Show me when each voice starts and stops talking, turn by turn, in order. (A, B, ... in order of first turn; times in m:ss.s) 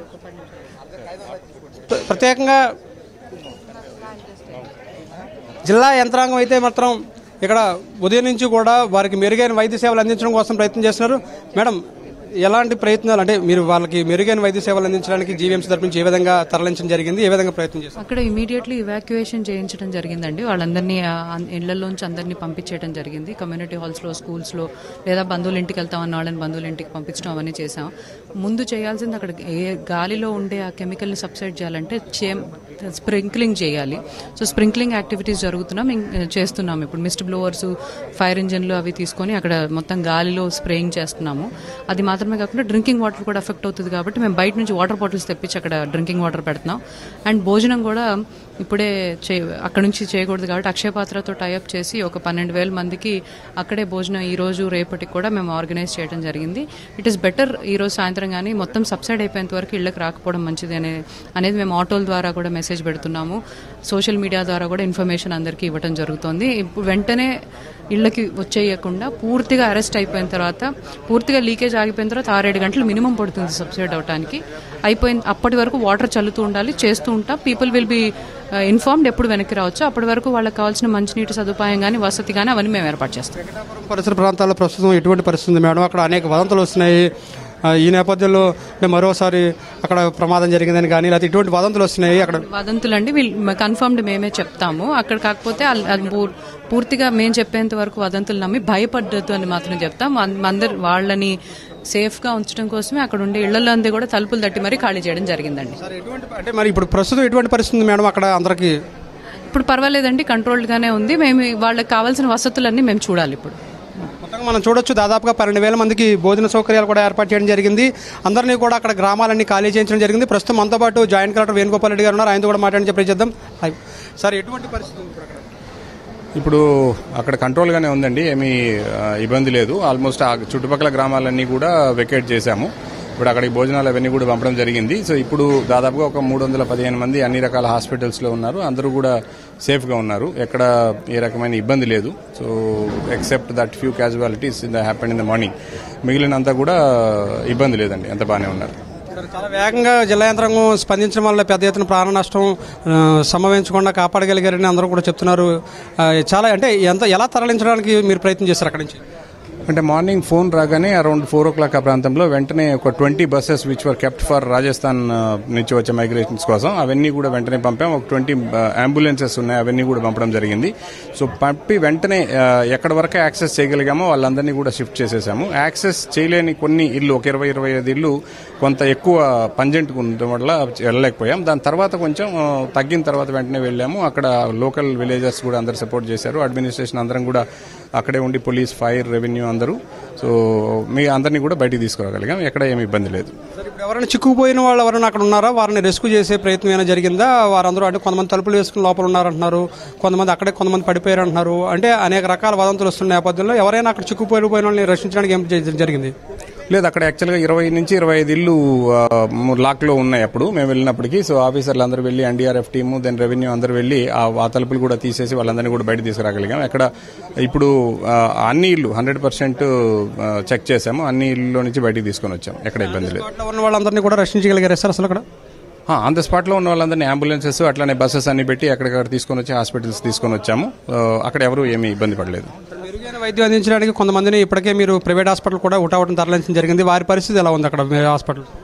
0:01.9-0:02.6 A
0:05.7-0:11.8 A
0:12.4-0:18.0 A
0:18.0-0:27.9 B
0:28.4-0:48.1 B
0:48.6-1:07.3 B
1:07.9-1:18.1 B
1:18.7-1:23.4 B
1:23.5-1:27.1 A
1:27.6-1:32.4 A
1:32.3-1:41.4 B
1:41.9-1:45.8 B
1:45.8-1:48.8 A
1:49.5-1:53.6 B
1:54.2-2:05.4 A
2:06.4-2:06.6 C
2:07.1-2:08.5 C
2:09.2-2:19.1 C
2:19.6-2:25.5 C
2:26.1-2:28.8 C
2:29.2-2:39.0 A
2:39.7-3:07.4 C
3:08.0-3:10.3 C
3:10.9-3:13.3 C
3:13.6-3:26.1 A
3:26.7-3:36.9 C
3:37.4-3:39.7 C
3:40.3-3:43.3 C
3:42.9-3:45.2 A
3:45.9-3:52.5 C
3:52.7-3:58.5 A